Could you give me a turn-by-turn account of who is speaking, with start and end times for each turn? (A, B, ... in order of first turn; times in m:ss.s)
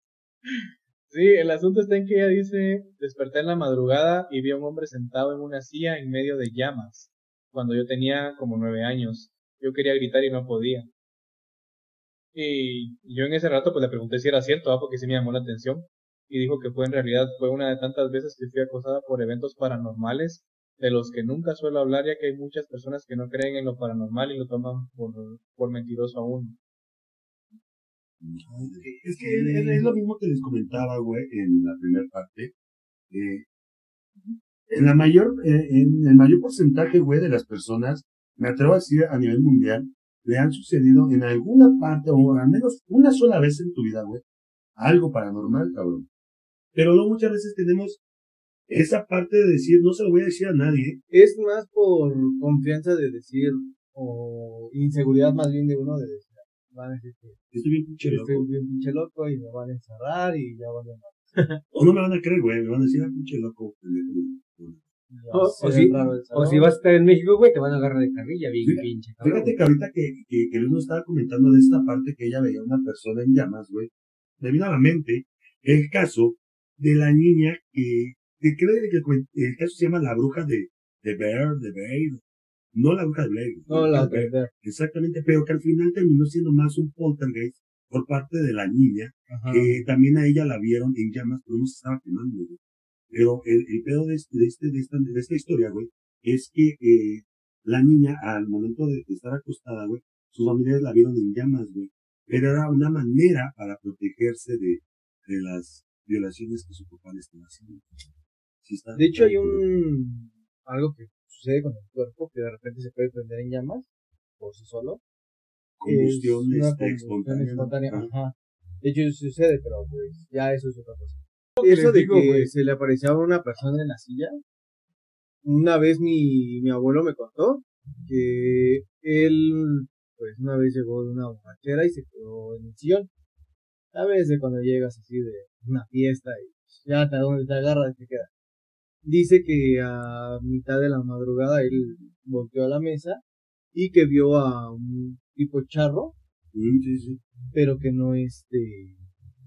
0:00.4-0:10.9 A
0:12.3-0:26.6 A
0:28.2-0:32.5 B
0:28.4-0:30.0 C
0:33.1-0:33.4 B
0:34.7-0:44.2 B
0:44.8-0:46.0 B
0:46.7-0:48.0 B
0:48.7-0:51.0 B
0:51.1-0:57.4 C
0:57.5-0:58.5 B
0:58.1-1:01.3 C
1:01.7-1:04.8 B
1:05.1-1:06.8 C
1:05.3-1:09.6 D
1:05.6-1:06.0 B
1:08.6-1:22.2 B
1:22.7-1:32.6 B
1:23.7-1:24.5 C
1:29.3-1:29.8 C
1:33.1-1:48.1 B
1:48.6-1:49.6 B
1:48.9-1:55.0 C
1:55.8-1:58.1 B
1:55.8-2:04.4 C
2:01.6-2:02.5 D
2:05.4-2:13.1 C
2:13.9-2:18.3 C
2:19.0-2:23.2 C
2:23.7-2:26.1 C
2:26.5-2:27.2 B
2:27.5-2:29.0 C